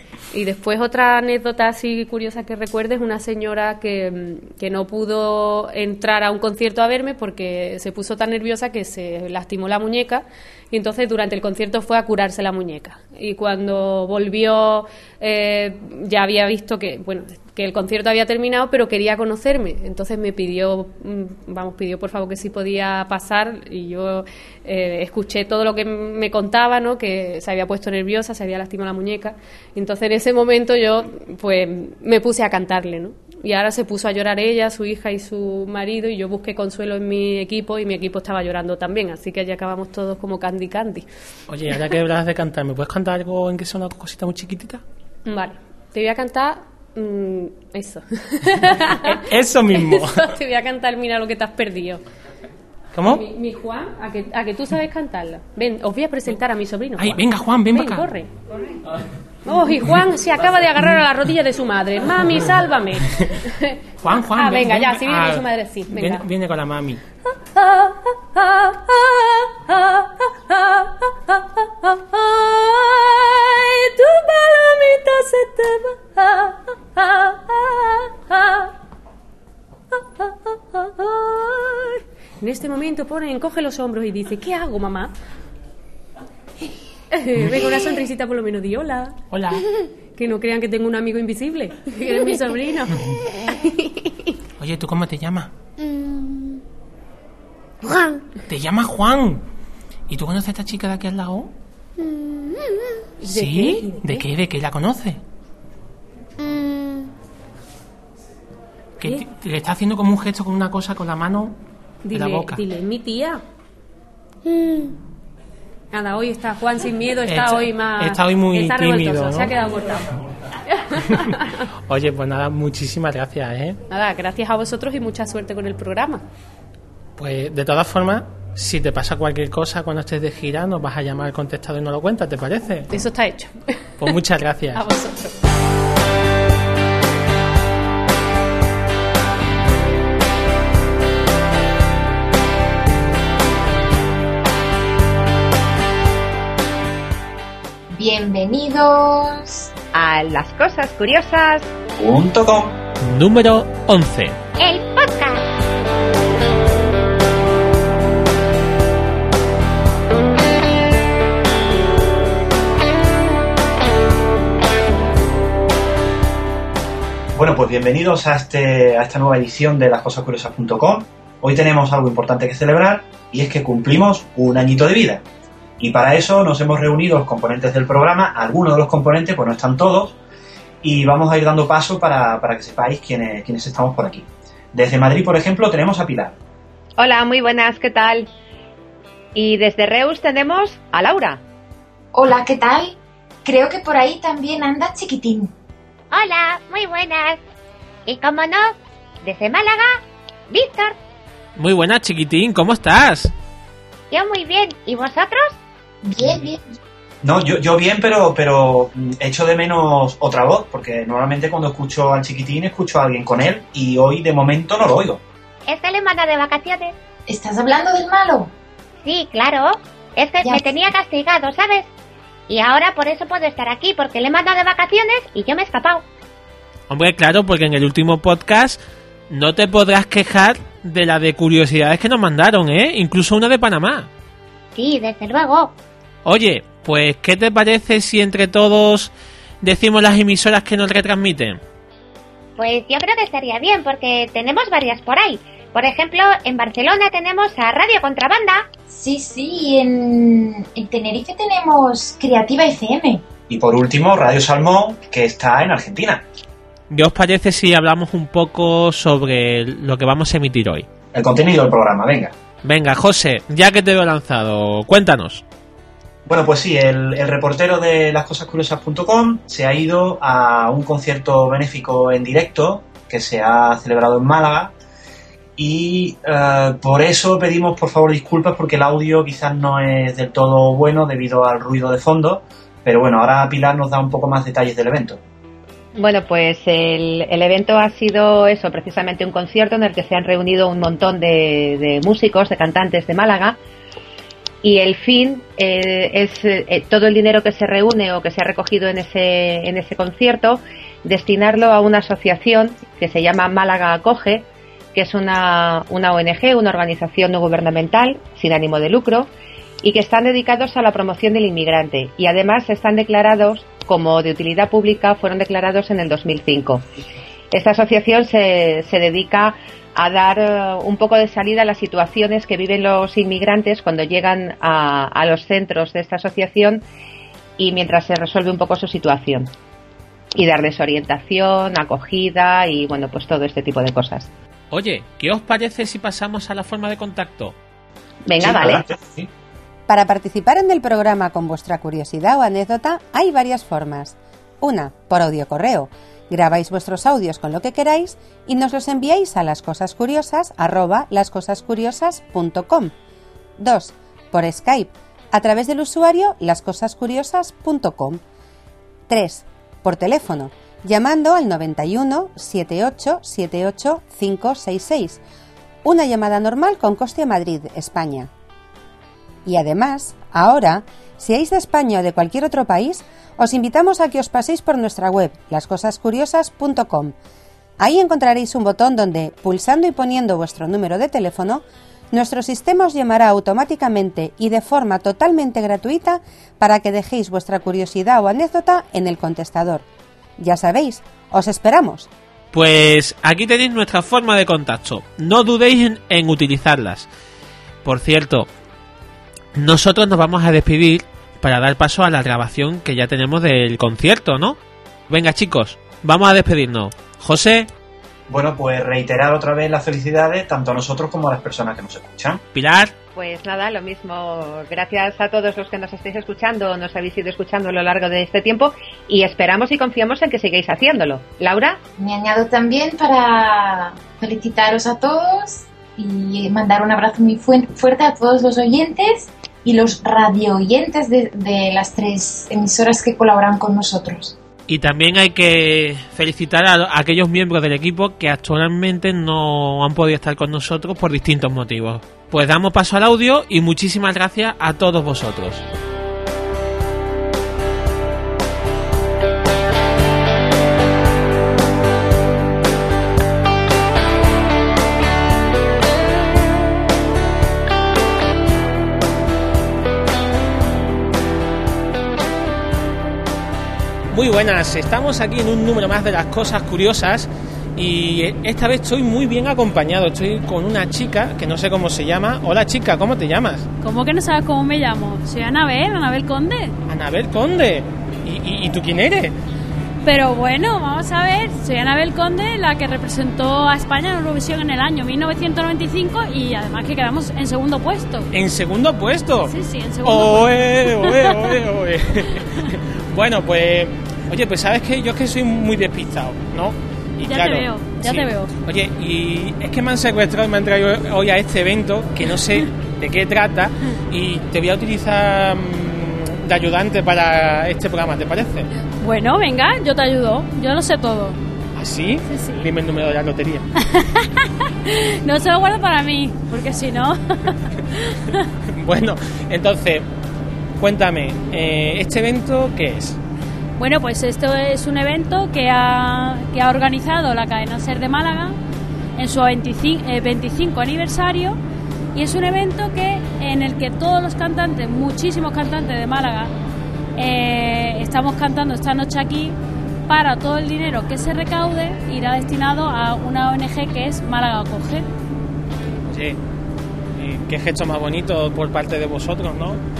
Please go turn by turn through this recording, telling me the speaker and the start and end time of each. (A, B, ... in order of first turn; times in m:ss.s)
0:00.3-0:41.1 A
0:41.5-0:44.8 B
0:45.2-0:52.0 A
0:48.9-0:50.2 B
0:52.9-0:53.2 B
0:53.0-0:58.3 A
0:57.0-0:58.1 B
0:59.4-1:06.2 A
1:04.0-1:07.0 B
1:07.4-1:18.7 A
1:19.9-1:25.1 A
1:27.1-1:29.2 A
1:29.3-1:29.6 B
1:30.2-1:32.9 A
1:34.6-1:35.5 B
1:38.5-1:39.4 B
1:40.1-1:41.5 B
1:43.2-1:44.2 A
1:43.2-1:45.2 B
1:46.6-1:47.0 A
1:49.0-1:51.5 B
1:52.0-1:53.4 A
1:52.1-1:52.6 B
1:54.5-1:54.9 A
1:55.9-2:00.1 A
1:57.2-1:59.5 B
2:00.7-2:01.4 A
2:01.9-2:03.8 B
2:03.9-2:06.2 A
2:07.2-2:12.9 B
2:12.9-2:14.1 A
2:14.0-2:14.8 B
2:14.7-2:15.3 A
2:27.9-2:29.7 C
2:29.9-2:31.7 D
2:32.0-2:32.8 E
2:33.0-2:34.4 B
2:34.6-2:35.4 F
2:47.3-2:55.2 E
2:55.8-3:00.2 E
3:00.8-3:06.3 E
3:07.0-3:08.3 D
3:09.3-3:11.4 D
3:12.1-3:15.5 C
3:16.1-3:17.4 F
3:18.0-3:18.7 F
3:19.2-3:20.9 F
3:21.6-3:23.3 B
3:24.1-3:25.5 F
3:26.0-3:26.7 C
3:27.2-3:35.2 E
3:35.7-3:36.9 F
3:37.3-3:38.5 C
3:39.0-3:41.9 F
3:42.5-3:46.0 F
3:46.9-3:54.1 B
3:54.8-3:55.7 F
3:56.2-4:01.6 B
4:02.6-4:08.6 F
4:08.9-4:13.2 C
4:13.5-4:16.2 E
4:16.9-4:20.8 B
4:21.1-4:22.3 E
4:22.6-4:25.4 B
4:26.3-4:34.7 E
4:35.6-4:45.2 E
4:46.0-4:53.6 D
4:54.6-5:09.3 D
5:09.8-5:16.8 D
5:17.5-5:26.8 D
5:27.6-5:29.5 D
5:30.4-5:34.3 D
5:34.7-5:37.6 B
5:38.3-5:38.8 D
5:38.4-5:39.3 E
5:39.9-5:52.9 G
5:53.6-5:58.2 G
5:59.1-6:05.2 G
6:05.8-6:08.3 G
6:09.4-6:17.1 G
6:17.8-6:29.8 G
6:30.4-6:32.1 G
6:32.5-6:37.1 B
6:37.8-6:38.5 B
6:39.5-6:44.6 B
6:45.1-6:47.7 B
6:48.3-6:52.4 E
6:52.5-6:52.9 B
6:53.1-7:01.8 D
7:02.0-7:14.4 C
7:14.7-7:25.6 B
7:44.1-7:53.7 B
7:53.8-7:56.7 H
7:56.9-7:59.3 B
8:00.0-8:08.3 H
8:08.3-8:09.5 B
8:09.4-8:11.6 H
8:10.0-8:28.7 B
8:17.2-8:18.5 H
8:29.0-8:31.4 H
8:31.8-8:33.6 B
8:32.2-8:32.7 H
8:33.8-8:37.5 H
8:38.1-8:38.4 H
8:38.7-8:40.0 B
8:40.8-8:43.2 B
8:43.8-8:48.6 H
8:49.2-8:51.6 H
8:52.1-8:56.5 H
8:57.2-8:59.6 H
9:00.1-9:05.1 H
9:06.1-9:06.4 B
9:07.2-9:09.8 B